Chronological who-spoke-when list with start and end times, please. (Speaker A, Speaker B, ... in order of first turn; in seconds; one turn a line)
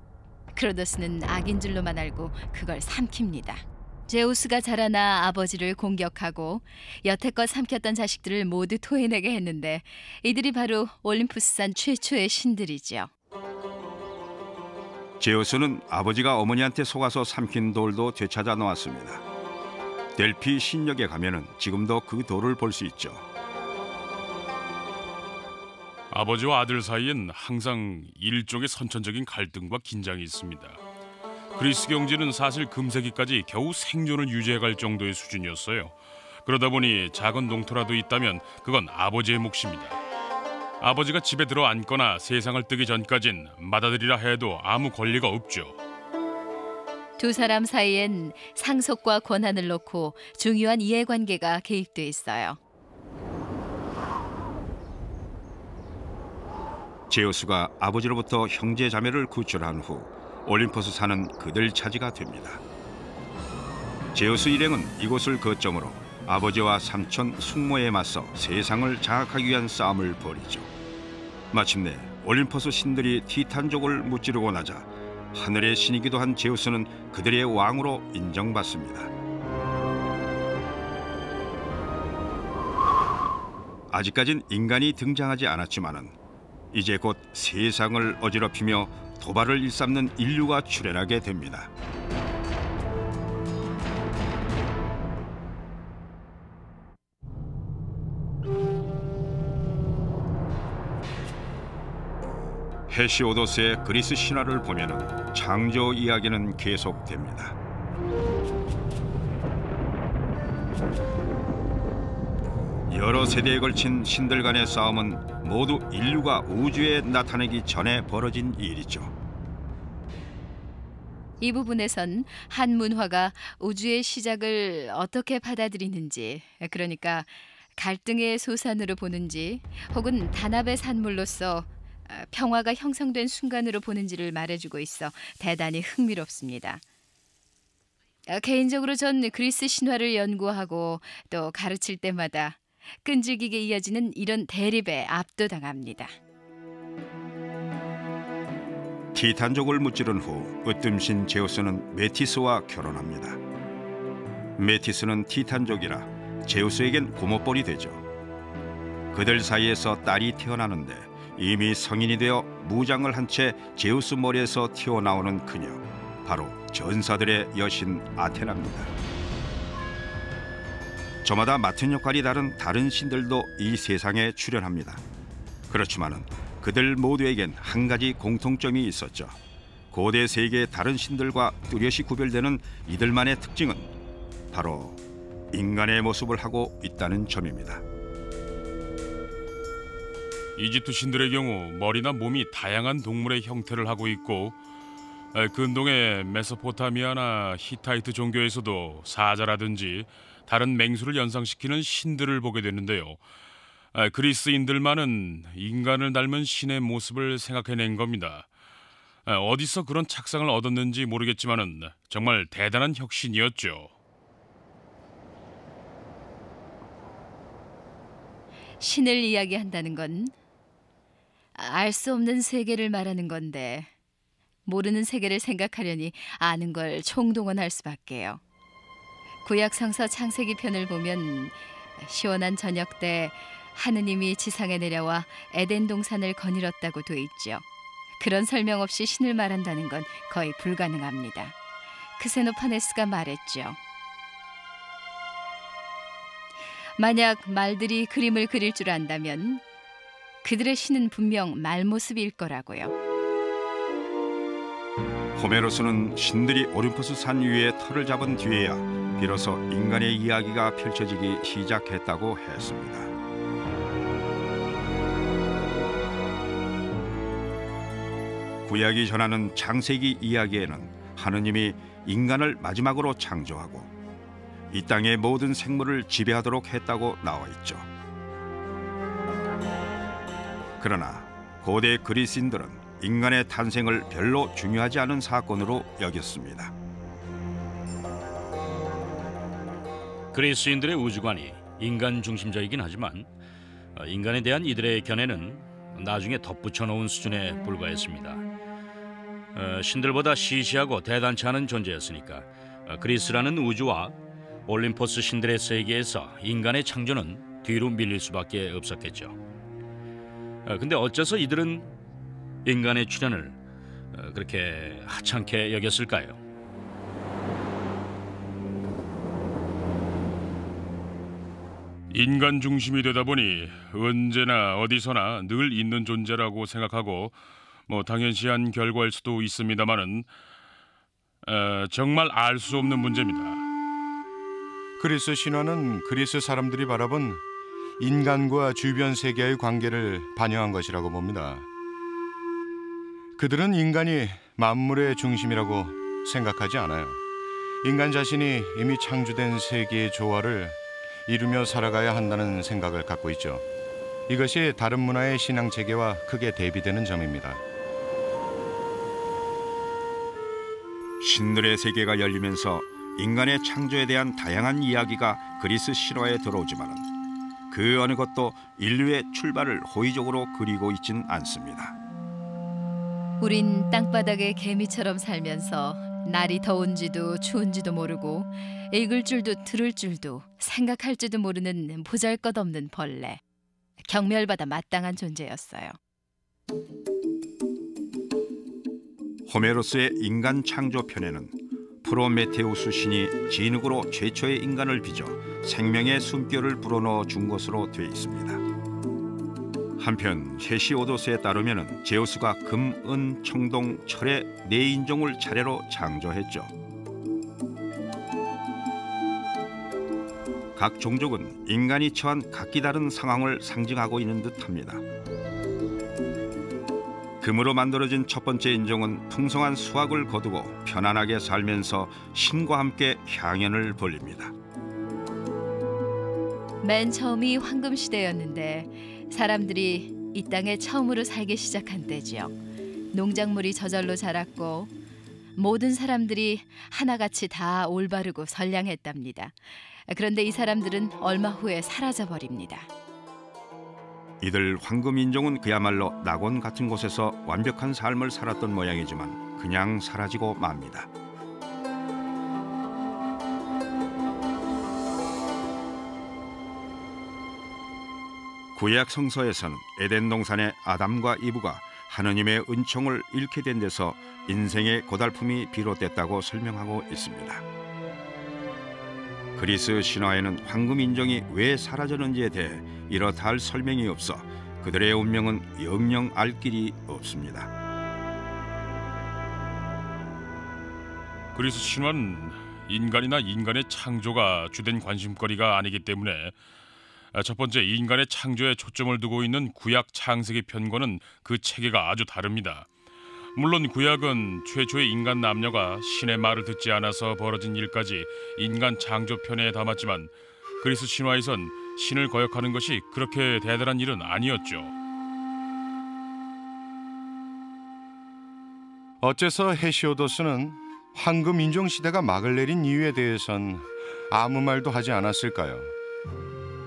Speaker A: 0.6-13.1
Speaker B: 15.2-19.2
Speaker B: 20.1-23.2
Speaker C: 26.1-30.8
Speaker C: 31.5-40.0
Speaker C: 40.8-45.8
Speaker A: 47.2-52.6
Speaker B: 57.1-62.6
Speaker B: 64.1-70.7
Speaker B: 71.5-79.1
Speaker B: 83.9-86.2
Speaker B: 86.7-91.7
Speaker B: 102.9-107.6
Speaker B: 112.9-119.1
Speaker A: 121.4-136.8
Speaker A: 138.3-146.1
Speaker B: 149.1-153.4
Speaker B: 154.6-158.0
Speaker B: 159.1-168.9
Speaker B: 171.2-175.0
Speaker B: 175.7-179.4
Speaker B: 179.9-183.9
Speaker B: 184.5-185.0
Speaker B: 185.5-187.8
Speaker C: 190.6-194.6
Speaker C: 195.3-203.2
Speaker C: 203.9-208.5
Speaker C: 209.3-213.9
Speaker A: 218.8-220.3
Speaker A: 221.6-223.9
Speaker A: 224.7-228.4
Speaker A: 229.4-237.7
Speaker A: 238.2-241.6
Speaker A: 242.2-243.8
Speaker A: 247.0-249.6
Speaker A: 250.4-252.9
Speaker B: 255.4-263.1
Speaker B: 268.6-273.9
Speaker B: 274.7-277.9
Speaker B: 280.8-286.7
Speaker D: 290.3-293.3
Speaker D: 293.9-298.4
Speaker D: 299.6-304.1
Speaker D: 304.7-309.4
Speaker D: 310.7-311.9
Speaker D: 312.6-313.6
Speaker D: 314.1-316.4
Speaker C: 322.1-327.4
Speaker C: 327.9-330.3
Speaker C: 331.4-333.6
Speaker E: 335.0-337.4
Speaker E: 338.0-341.7
Speaker E: 343.4-347.2
Speaker E: 347.8-353.6
Speaker E: 354.3-357.6
Speaker B: 361.2-367.1
Speaker B: 367.7-372.0
Speaker A: 373.4-383.4
Speaker A: 384.1-386.0
Speaker B: 389.5-398.6
Speaker B: 400.0-406.7
Speaker B: 410.8-415.0
Speaker B: 417.4-424.5
Speaker A: 426.8-432.6
Speaker A: 433.1-434.9
Speaker A: 435.6-439.6
Speaker A: 440.1-442.9
Speaker B: 444.4-451.1
Speaker B: 458.7-467.6
Speaker B: 469.6-477.7
Speaker C: 481.5-486.6
Speaker C: 487.3-492.9
Speaker C: 493.6-504.9
Speaker E: 509.2-515.9